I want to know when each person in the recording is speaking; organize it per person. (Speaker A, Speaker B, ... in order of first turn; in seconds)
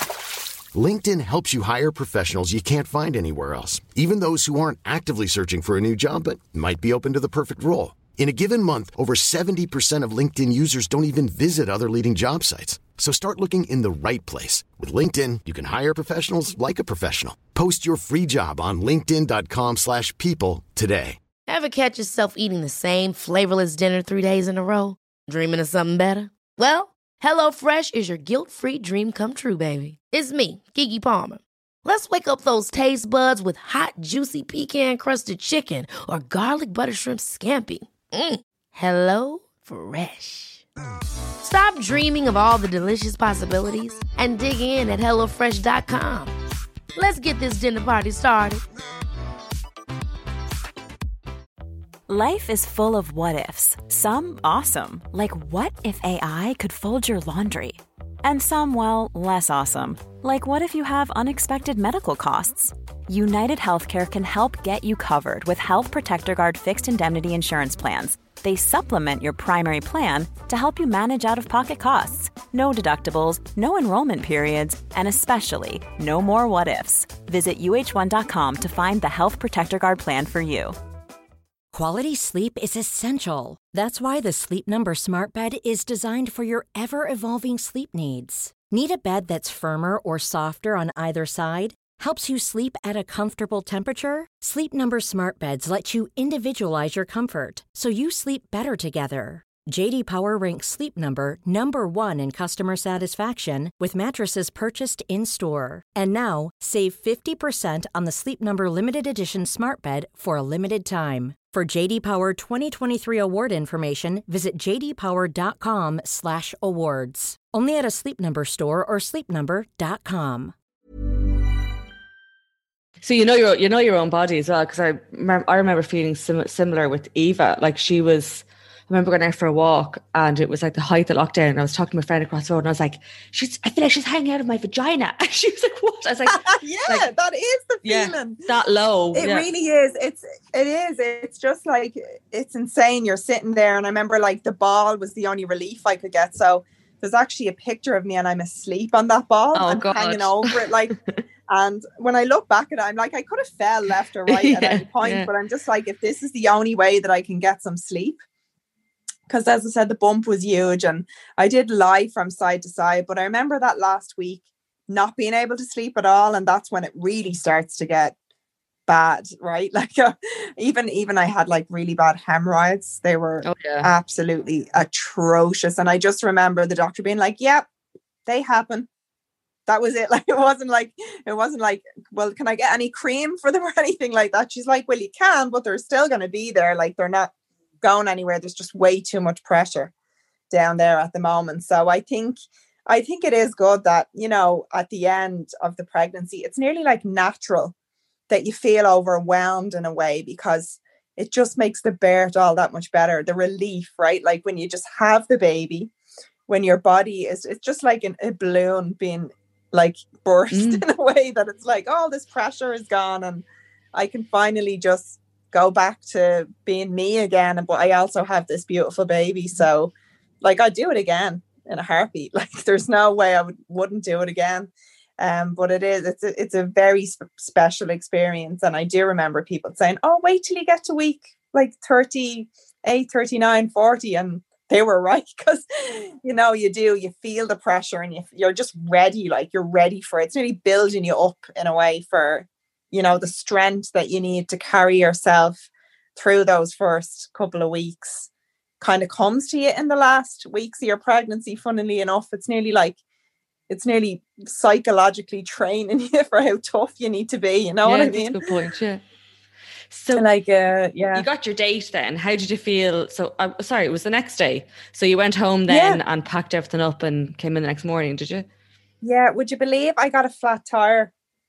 Speaker A: 0.7-21.2
Speaker B: 21.5-40.6, 41.4-46.3, 46.9-48.6
Speaker C: 52.1-80.8
Speaker D: 81.7-120.5
Speaker E: 123.0-137.1, 137.8-139.5, 149.5-150.7, 154.3-155.3, 173.4-173.9, 210.5-210.8, 257.8-259.0, 259.9-260.3, 261.1-268.5
Speaker F: 136.3-138.4, 139.1-150.9, 151.5-158.2, 159.3-168.1, 168.9-177.7, 178.2-178.9, 179.7-189.9, 190.5-197.7, 198.3-205.9, 206.5-253.0, 253.7-258.4, 260.1-261.2, 265.7-266.0, 269.0-271.1